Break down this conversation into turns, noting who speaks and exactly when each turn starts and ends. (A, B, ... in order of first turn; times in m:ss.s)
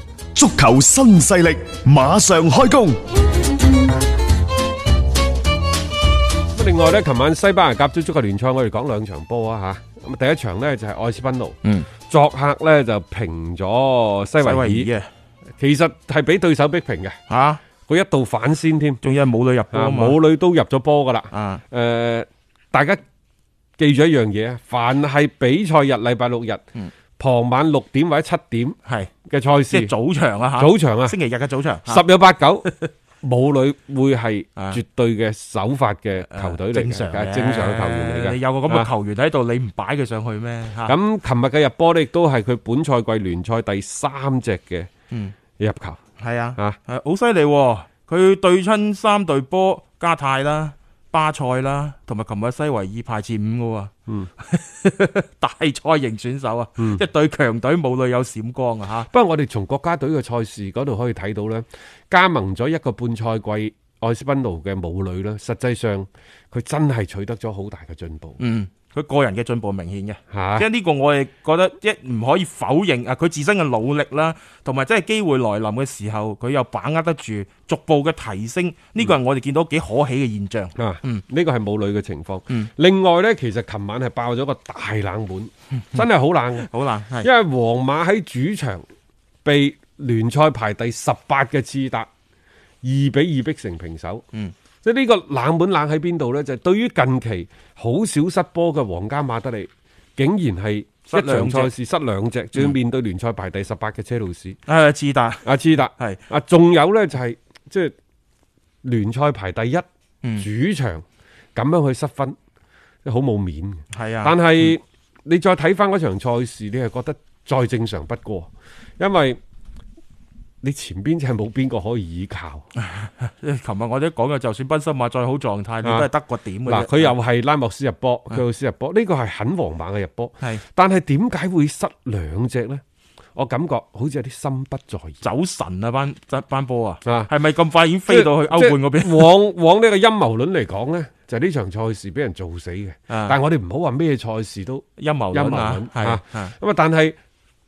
0:00.4-0:03.0 A
0:06.6-0:14.9 B
0:14.4-0:15.1 C
0:15.6-0:17.2 B
0:17.3-0:17.6 C
0:17.9-0:19.0 B
0:19.0-0:20.2 C
0:19.7-0:23.0 B
0:21.3-0:21.6 C
0:23.8-0:26.6 B
0:27.2-0:28.8 B
0:28.8-0:29.1 C
0:29.3-0:29.9 B
0:29.7-0:32.0 C
0:30.6-0:31.2 B
0:31.9-0:32.7 B
0:33.2-0:38.9 B
0:36.3-0:41.0 C
0:40.8-0:44.9 B
0:45.6-0:46.0 B
0:46.2-0:59.1 C
0:59.1-1:08.4 B
1:08.4-1:21.2 C
1:10.3-1:10.7 B
1:20.8-1:26.7 B
1:26.6-1:27.3 C
1:27.2-1:28.9 B
1:29.4-1:32.1 B
1:32.8-1:34.2 B
1:34.8-1:44.6 B
1:41.1-1:41.7 C
1:44.7-1:46.2 C
1:45.4-1:47.9 B
1:48.8-1:49.8 B
1:50.4-1:52.4 B
1:53.0-1:59.4 B
1:53.9-1:54.7 C
2:00.6-2:02.7 B
2:02.8-2:07.2 C
2:05.8-2:06.1 B
2:06.6-2:12.8 B
2:13.4-2:15.2 B
2:15.2-2:19.4 C
2:17.0-2:17.3 B
2:18.1-2:27.2 B
2:23.1-2:23.4 C
2:25.0-2:26.5 C